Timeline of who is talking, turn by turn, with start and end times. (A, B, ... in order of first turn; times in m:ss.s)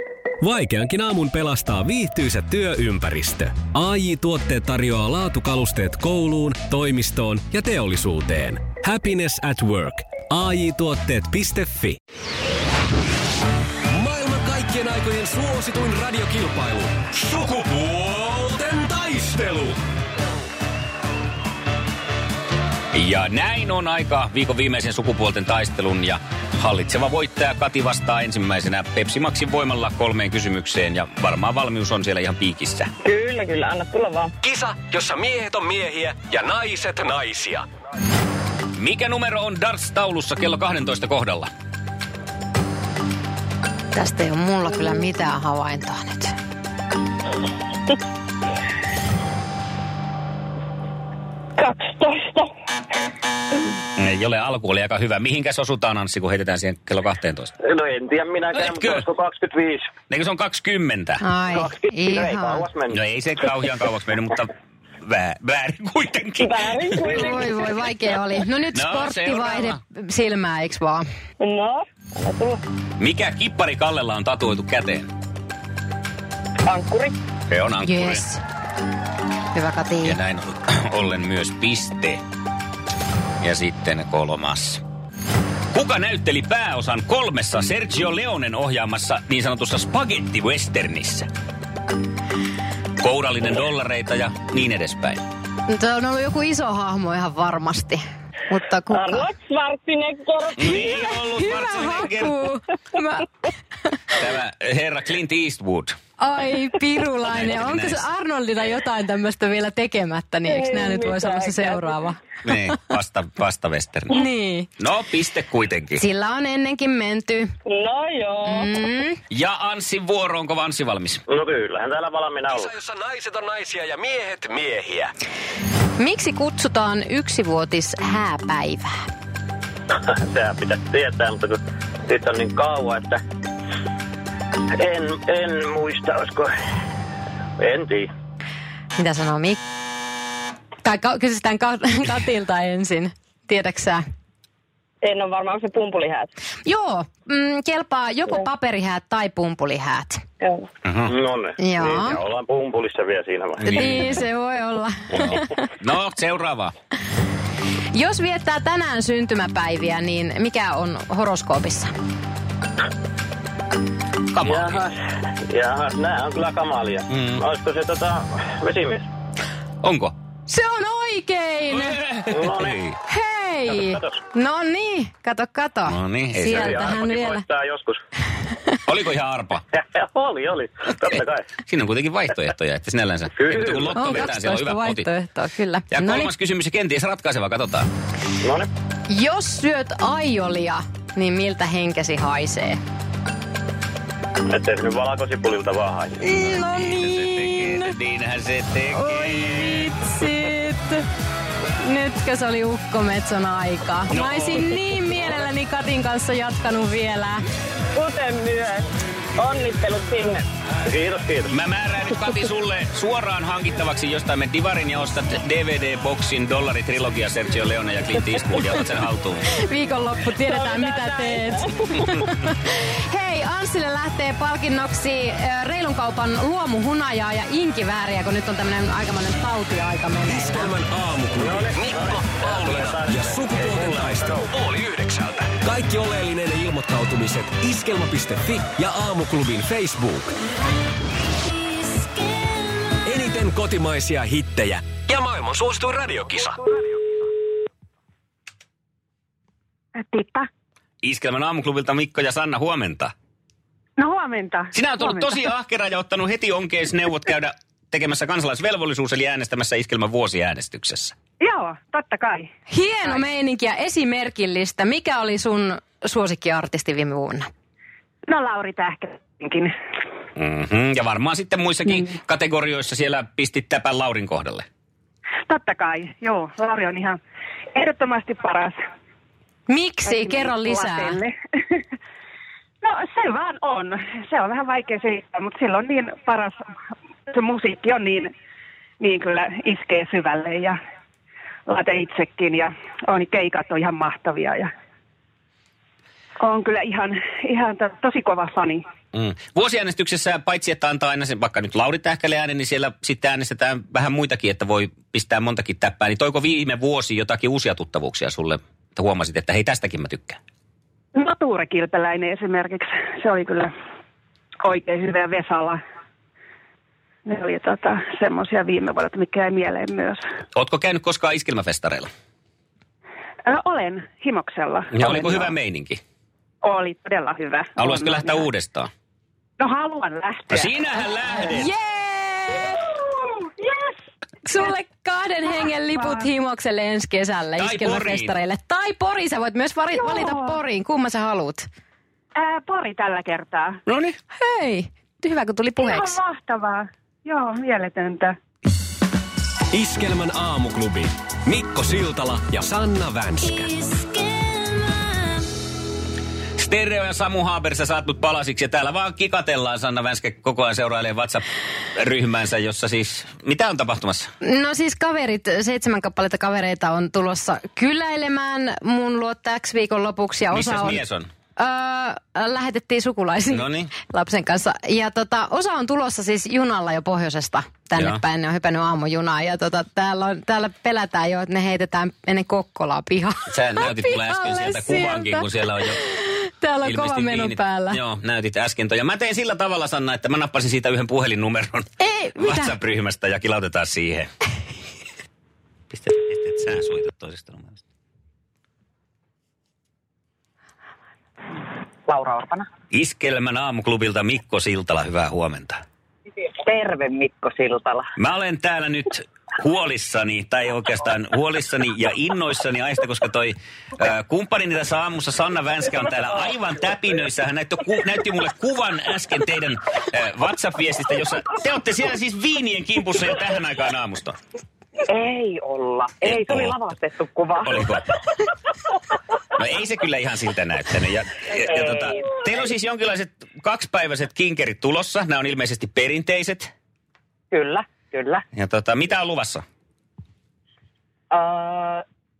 0:00.4-0:12.0 A
0:13.9-0:19.8 A
0:22.9-0:32.9 B
0:33.0-0:34.3 C
0:34.4-0:37.6 A
0:38.8-0:41.5 B
0:43.9-0:46.3 D
0:51.6-0:52.5 C
0:54.0-0:57.5 B
0:57.6-0:59.9 E
0:58.6-0:59.0 B
1:00.1-1:01.2 B
1:01.2-1:02.6 D
1:01.5-1:03.0 E
1:02.9-1:07.4 B
1:06.4-1:07.4 C
1:07.1-1:11.0 D
1:08.7-1:09.8 B
1:11.4-1:12.6 C
1:13.0-1:15.1 B
1:16.7-1:17.2 C
1:17.5-1:18.2 B
1:17.8-1:18.4 D
1:19.5-1:20.2 D
1:20.0-1:22.2 B
1:23.4-1:24.8 B
1:25.7-1:31.3 B
1:33.0-1:35.2 B
1:35.7-1:39.3 D
1:38.9-1:41.0 C
1:40.6-1:42.4 B
1:41.4-1:43.3 D
1:44.2-1:46.0 B
1:46.2-1:52.2 D
1:47.3-1:48.0 B
1:50.5-1:51.9 C
1:52.4-1:54.2 B
1:54.1-1:54.7 D
1:54.8-1:56.0 B
1:56.0-1:57.5 D
1:57.6-1:58.7 C
1:58.4-1:59.2 D
1:59.3-2:01.2 B
2:01.3-2:02.7 E
2:02.5-2:05.1 A
2:06.0-2:08.9 D
2:09.9-2:13.2 E
2:14.7-2:16.5 E
2:17.6-2:18.1 E
2:19.0-2:19.6 D
2:20.8-2:24.0 D
2:25.0-2:26.3 C
2:26.6-2:30.2 D
2:30.4-2:30.7 C
2:30.8-2:31.1 B
2:31.1-2:34.0 E
2:31.6-2:32.2 D
2:33.7-2:35.6 D
2:33.7-2:34.2 B
2:35.2-2:36.7 B
2:37.9-2:41.9 D
2:44.3-2:44.8 B
2:44.4-2:49.1 E
2:47.1-2:47.4 B
2:49.8-2:50.1 B
2:50.5-2:52.0 D
2:51.8-2:53.0 B
2:52.3-2:52.8 E
2:53.1-2:57.4 D
2:53.7-2:54.2 E
2:55.9-2:56.7 B
2:56.4-2:58.0 E
2:58.8-2:59.6 B
2:59.7-3:01.5 E
3:01.7-3:05.1 B
3:03.4-3:04.2 E
3:03.9-3:06.3 D
3:05.9-3:07.9 B
3:08.4-3:08.7 E
3:09.1-3:12.8 D
3:14.5-3:16.2 E
3:16.2-3:17.9 D
3:16.5-3:19.9 B
3:18.9-3:21.0 D
3:21.8-3:27.4 D
3:24.1-3:24.6 B
3:27.9-3:30.4 C
3:30.8-3:31.5 E
3:31.5-3:39.5 B
3:39.6-3:50.7 D
3:40.5-3:41.7 C
3:50.3-4:00.3 A
3:51.4-3:54.5 E
4:03.0-4:07.0 A
4:10.0-4:10.5 F
4:11.0-4:13.1 B
4:14.0-4:15.4 F
4:14.7-4:21.1 B
4:21.4-4:22.5 F
4:22.7-4:27.5 D
4:28.2-4:29.7 F
4:30.4-4:34.6 B
4:35.5-4:37.2 F
4:37.7-4:38.8 F
4:39.7-4:41.2 D
4:40.0-4:41.8 F
4:42.8-4:46.6 F
4:47.3-4:48.3 F
4:49.0-4:50.8 F
4:51.7-4:54.7 F
4:56.4-4:58.8 F
4:59.1-5:10.4 B
5:11.1-5:13.7 F
5:14.6-5:15.8 F
5:17.2-5:20.2 F
5:20.5-5:22.1 B
5:23.4-5:25.5 F
5:24.9-5:26.0 B
5:26.6-5:28.4 F
5:27.8-5:28.9 B
5:29.6-5:30.8 F
5:30.5-5:31.7 B
5:31.4-5:32.9 D
5:33.2-5:33.9 F
5:34.4-5:41.6 D
5:36.0-5:36.2 F
5:37.6-5:38.4 B
5:40.1-5:40.4 F
5:42.4-5:43.8 F
5:43.9-5:44.2 B
5:44.4-5:46.2 D
5:45.8-5:48.3 F
5:49.7-5:54.0 A
5:56.6-6:04.3 B
6:04.4-6:11.0 D
6:10.5-6:11.3 B
6:11.6-6:28.0 D
6:13.5-6:13.9 B
6:23.5-6:26.0 B
6:26.8-6:34.3 B
6:32.0-6:32.7 D
6:35.9-6:37.8 B
6:42.1-6:42.6 G
6:42.9-6:45.8 B
6:46.6-6:48.1 G
6:48.2-7:04.4 B
7:05.1-7:07.8 G
7:06.2-7:06.8 B
7:07.6-7:08.2 B
7:09.6-7:16.7 B
7:11.7-7:12.3 G
7:17.5-7:18.4 G
7:18.5-7:19.6 B
7:21.3-7:22.0 G